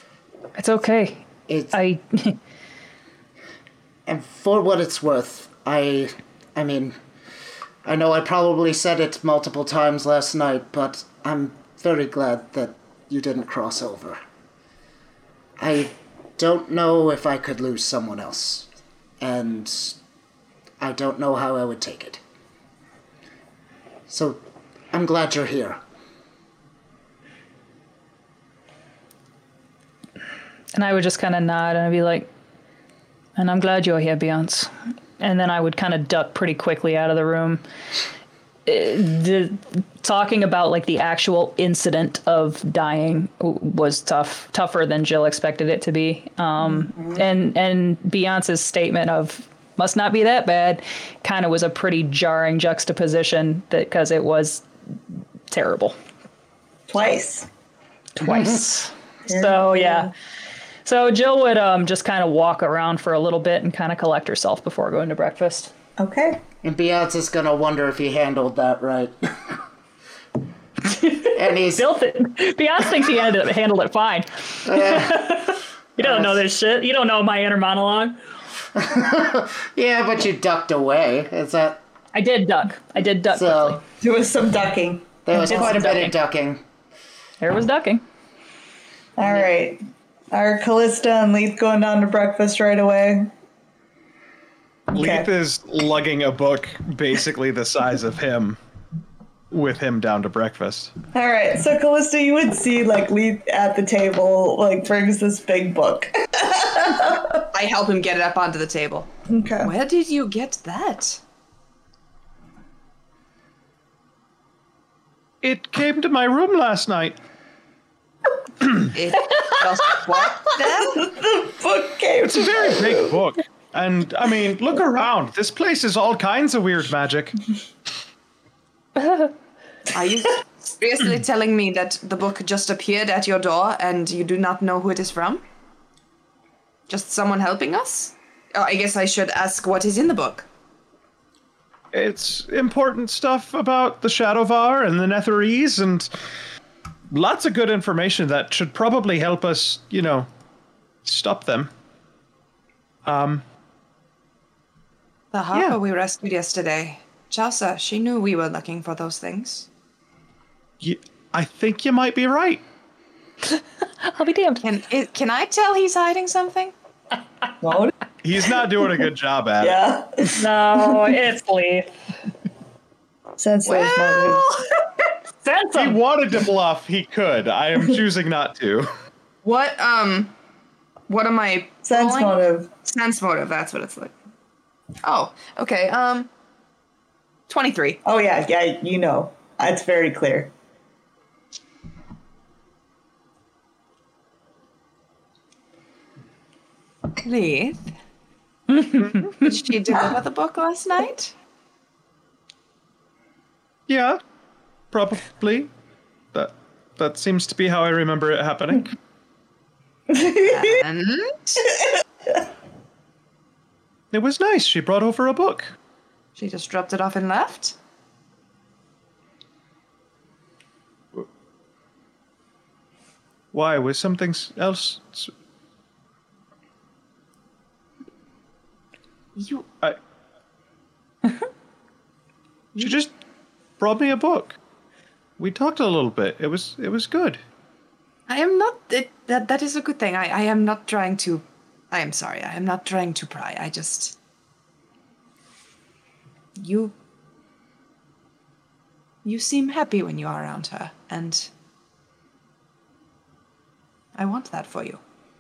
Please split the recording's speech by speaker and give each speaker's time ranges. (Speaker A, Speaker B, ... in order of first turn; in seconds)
Speaker A: 0.6-2.4, 30.7-32.3, 33.4-37.6, 38.7-54.6, 55.5-56.0, 58.2-60.1, 60.9-65.7, 70.9-78.2, 82.2-83.8, 85.3-86.2, 87.4-88.0, 129.0-129.3, 163.5-164.6, 170.4-171.9, 175.4-176.0
Speaker B: 1.5-1.8, 4.1-7.0, 7.8-14.2, 15.6-18.7, 19.2-20.0, 20.8-22.2, 24.1-24.4, 24.9-25.8, 58.2-58.6, 66.6-69.6, 71.2-71.9, 74.7-75.3, 76.0-76.4, 78.8-81.8, 83.3-83.8, 85.3-86.6
Speaker C: 56.9-57.5, 59.3-60.1, 66.0-66.4, 84.0-86.0, 89.2-89.8, 90.3-93.3, 94.9-95.3, 101.1-107.5, 109.3-109.7, 120.5-123.2, 167.6-167.9, 169.6-171.0, 173.4-174.5, 181.9-182.7, 188.1-190.5, 210.1-210.7
Speaker D: 94.9-98.6, 99.5-100.9, 115.4-117.2, 122.2-127.4, 141.9-146.1, 147.1-150.3, 151.1-151.7, 153.0-153.4, 160.8-162.6, 168.2-169.8, 175.8-178.9, 199.0-199.3, 203.9-204.2, 204.9-205.7, 206.3-208.9, 214.1-215.7, 223.5-225.3, 232.8-233.1, 233.8-234.6, 235.4-237.4
Speaker E: 107.5-109.1, 109.6-111.2, 118.9-120.9, 129.9-135.4, 136.9-140.5, 155.3-159.7, 164.6-166.7, 173.7-174.6, 179.4-180.3, 181.1-184.1, 185.0-186.3, 187.5-188.0, 197.2-197.9, 199.4-201.3, 210.4-211.7, 216.4-217.8, 229.4-229.7, 232.7-233.0, 238.3-244.2, 246.6-246.9, 249.2-251.5, 254.2-255.0